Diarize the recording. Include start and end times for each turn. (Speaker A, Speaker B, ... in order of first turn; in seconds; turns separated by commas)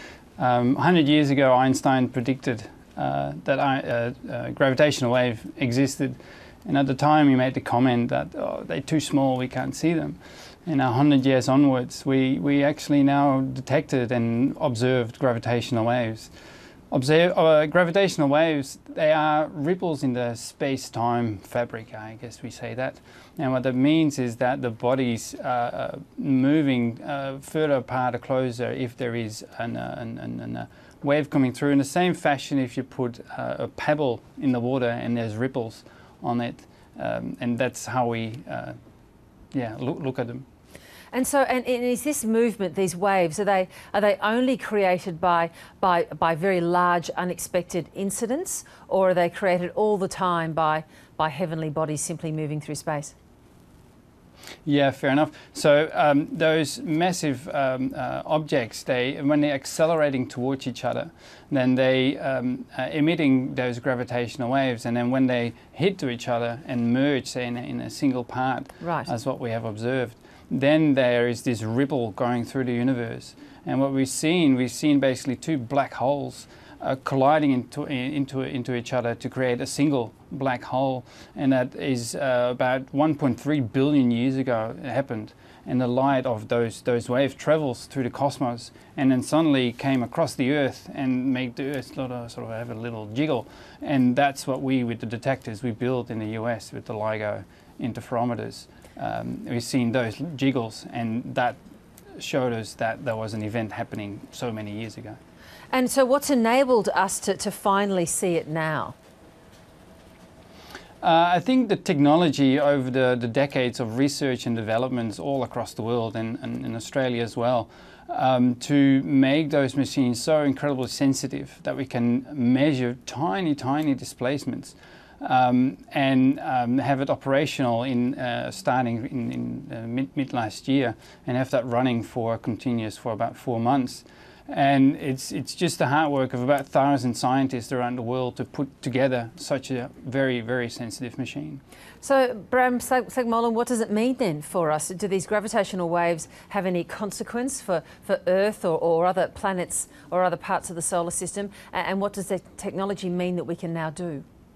Speaker A: 0.4-16.3, Speaker A: 16.9-38.8, Speaker A: 39.5-40.5, Speaker B: 41.1-53.1, Speaker A: 54.6-101.6, Speaker B: 68.8-69.1, Speaker A: 102.2-105.2, Speaker B: 105.7-108.9, Speaker A: 111.0-141.6, Speaker B: 142.0-154.2